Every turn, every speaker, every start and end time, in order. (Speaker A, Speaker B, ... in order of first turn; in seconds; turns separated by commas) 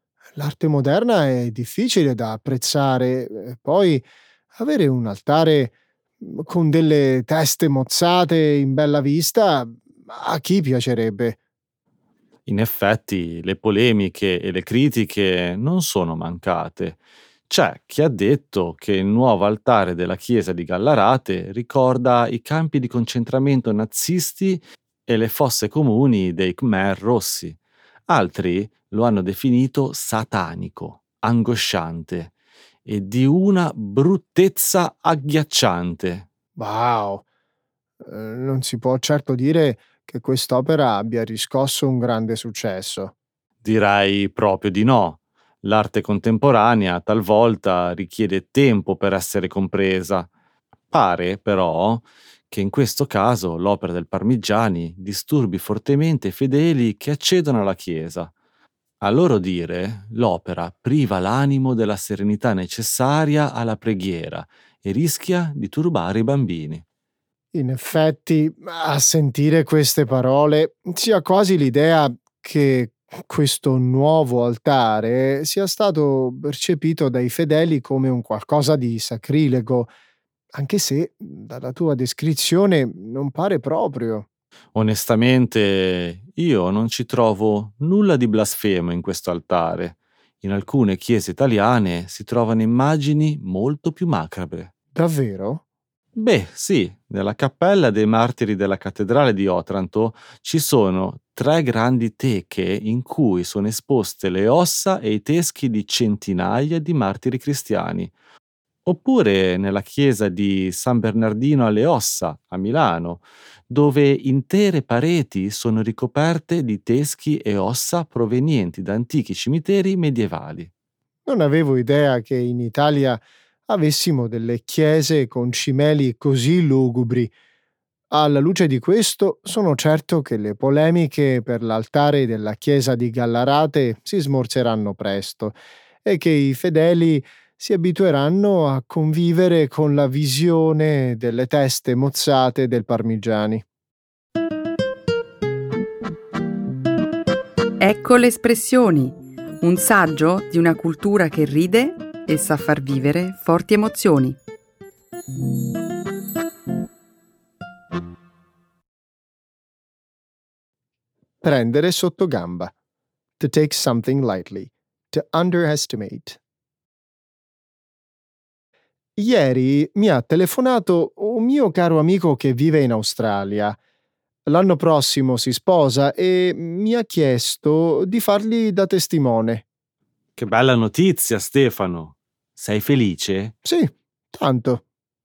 Speaker A: 0.4-11.4, Speaker B: 12.5-27.6, Speaker B: 28.1-32.3, Speaker B: 32.9-36.3, Speaker A: 36.6-37.2, Speaker A: 38.0-43.1, Speaker B: 43.6-50.3, Speaker B: 50.9-58.3, Speaker B: 59.0-66.8, Speaker A: 67.5-79.9, Speaker A: 80.5-84.3, Speaker B: 84.8-94.7, Speaker A: 95.0-95.6, Speaker B: 96.2-108.1, Speaker B: 108.9-120.7, Speaker A: 121.3-127.3, Speaker A: 128.1-143.6, Speaker C: 147.8-154.4, Speaker A: 161.4-162.7, Speaker A: 163.4-166.4, Speaker A: 169.2-173.8, Speaker A: 174.5-179.6, Speaker B: 180.4-183.6, Speaker A: 183.6-184.8